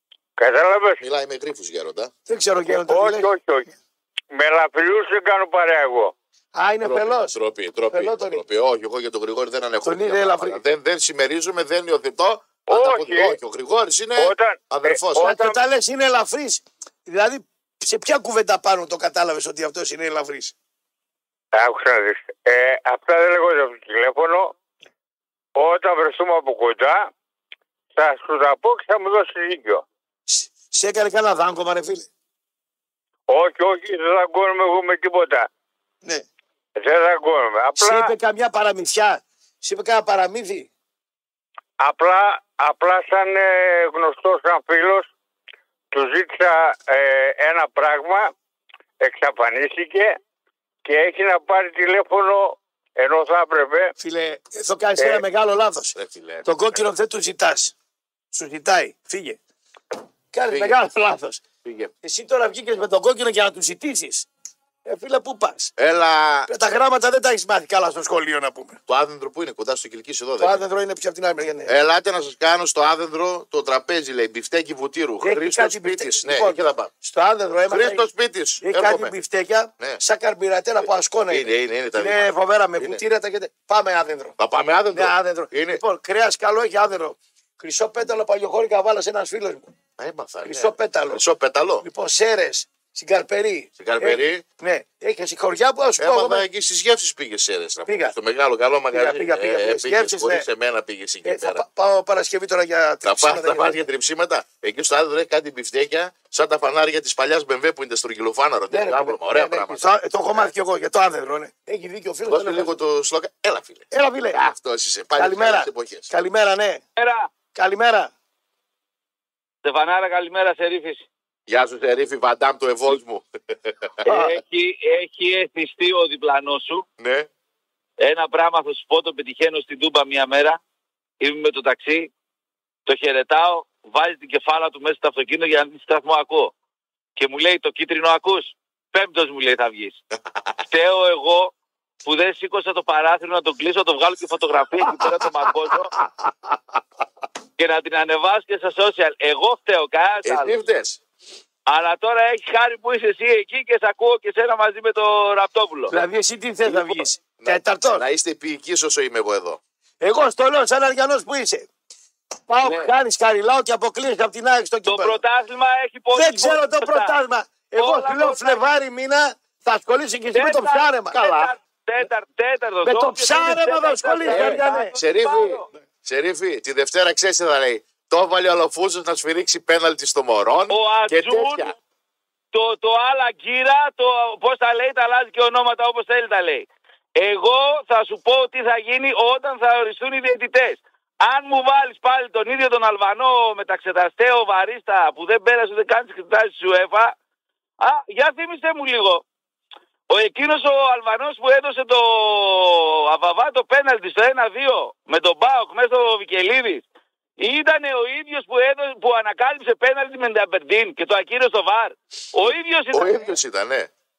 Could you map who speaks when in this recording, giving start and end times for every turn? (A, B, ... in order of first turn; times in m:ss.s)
0:00.4-0:01.0 A
0:01.0-0:02.1 B
0:02.3-0:03.3 C
0:02.9-0:03.7 A
0:04.3-0:06.1 A
0:06.6-0:07.4 C
0:06.8-0:15.4 B
0:07.9-0:08.4 C
0:09.8-0:10.6 C
0:12.7-0:13.4 A
0:14.2-0:15.6 A
0:15.2-0:20.5 C
0:21.5-0:24.5 A
0:25.6-0:27.1 A
0:28.0-0:29.8 A
0:30.3-0:32.1 C
0:33.3-0:35.5 A
0:36.8-0:38.1 A
0:37.8-0:40.7 C
0:41.8-0:45.1 A
0:45.9-0:48.3 A
0:49.0-0:50.2 A
0:50.8-0:53.9 A
0:54.0-0:57.7 C
0:56.0-0:56.8 B
0:58.3-0:59.4 C
1:00.3-1:01.4 C
1:00.5-1:00.8 B
1:01.6-1:01.9 B
1:02.0-1:04.3 C
1:04.8-1:05.7 C
1:05.8-1:06.5 B
1:06.5-1:08.8 C
1:08.9-1:10.6 B
1:10.4-1:11.8 C
1:11.7-1:16.9 B
1:15.2-1:18.0 C
1:17.7-1:19.1 B
1:18.6-1:24.4 C
1:21.3-1:22.3 B
1:24.4-1:25.8 B
1:24.9-1:29.7 C
1:30.0-1:31.9 B
1:30.4-1:31.2 C
1:31.8-1:36.4 C
1:33.8-1:34.4 B
1:36.0-1:41.6 B
1:37.9-1:38.2 C
1:38.9-1:40.5 C
1:41.2-1:43.8 C
1:43.0-1:50.5 B
1:48.7-1:52.8 C
1:52.3-1:56.1 B
1:53.9-1:54.4 C
1:55.2-1:56.8 C
1:57.0-1:57.3 D
1:57.5-1:58.1 C
1:59.6-2:01.1 D
2:01.5-2:04.0 B
2:04.0-2:04.4 C
2:04.0-2:06.9 D
2:07.0-2:07.3 B
2:08.0-2:10.6 D
2:11.2-2:12.1 D
2:12.9-2:16.5 D
2:17.2-2:20.0 D
2:20.7-2:21.5 D
2:22.0-2:25.9 D
2:27.6-2:30.6 D
2:30.2-2:31.0 B
2:31.7-2:35.9 D
2:35.9-2:38.0 C
2:37.4-2:39.6 B
2:40.0-2:41.7 C
2:42.5-2:45.2 C
2:42.6-2:42.9 D
2:44.9-2:47.2 D
2:46.1-2:51.5 C
2:47.8-2:48.7 D
2:50.3-2:55.7 D
2:52.8-2:54.9 C
2:54.3-3:01.8 B
3:00.7-3:01.7 D
3:02.5-3:17.2 D
3:17.8-3:19.2 D
3:20.1-3:26.8 D
3:27.4-3:33.3 D
3:32.9-3:33.9 B